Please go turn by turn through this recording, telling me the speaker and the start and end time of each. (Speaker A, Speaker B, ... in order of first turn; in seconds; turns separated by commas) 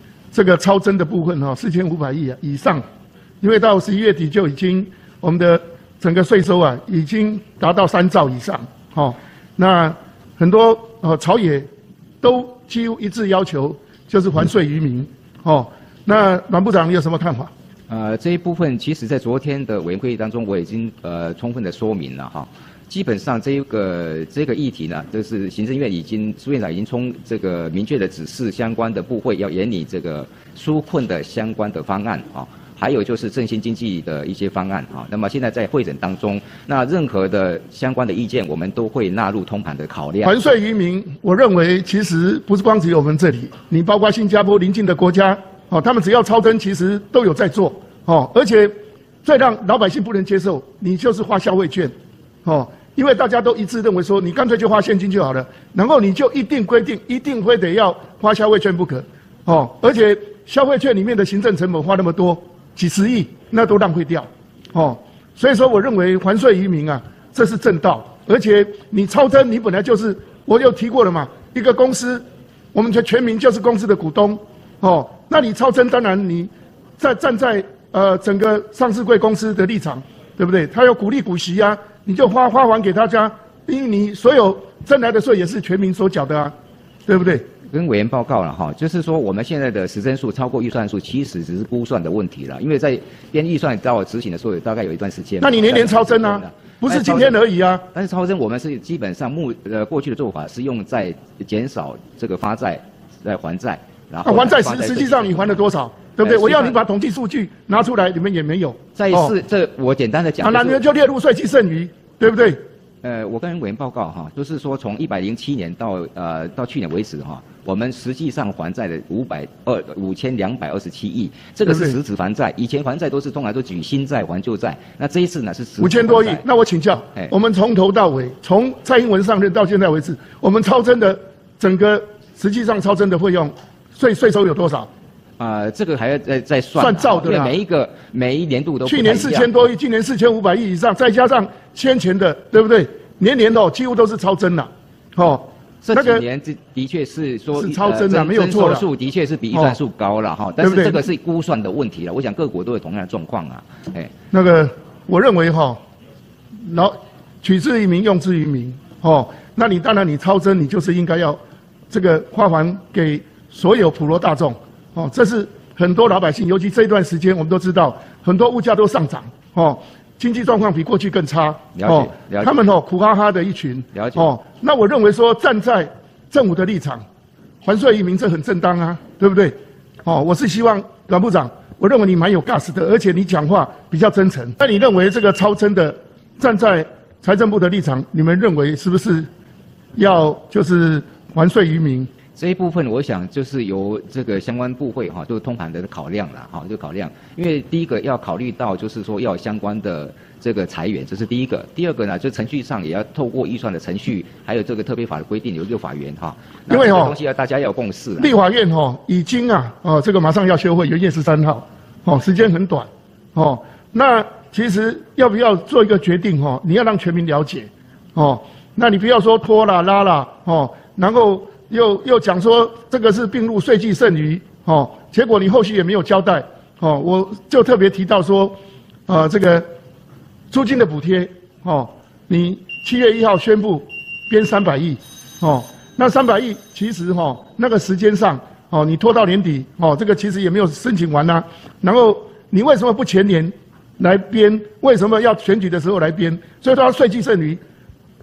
Speaker A: 0.3-2.8, Speaker A: 3.4-11.7, Speaker A: 12.2-17.5, Speaker B: 17.9-40.3, Speaker A: 40.2-48.7, Speaker A: 49.2-51.9, Speaker A: 52.5-72.2, Speaker A: 72.7-86.5, Speaker A: 87.1-87.4, Speaker B: 87.7-97.4, Speaker A: 95.4-97.8, Speaker B: 97.9-105.6, Speaker A: 104.2-109.3, Speaker B: 106.2-106.8, Speaker B: 109.0-110.8, Speaker A: 110.4-112.6, Speaker B: 113.0-126.5, Speaker A: 121.7-122.0, Speaker A: 125.8-134.9, Speaker B: 135.4-139.7, Speaker A: 136.8-137.6, Speaker A: 138.8-146.2, Speaker B: 145.8-154.1, Speaker A: 147.6-148.8, Speaker A: 150.6-151.1, Speaker A: 154.3-155.8, Speaker A: 156.7-161.4, Speaker A: 161.9-177.0, Speaker B: 171.8-172.5, Speaker B: 173.9-174.3, Speaker A: 177.6-189.3, Speaker A: 190.0-192.1, Speaker B: 192.4-208.4, Speaker A: 206.7-207.2, Speaker A: 208.2-228.6, Speaker A: 229.1-229.7, Speaker A: 230.5-247.6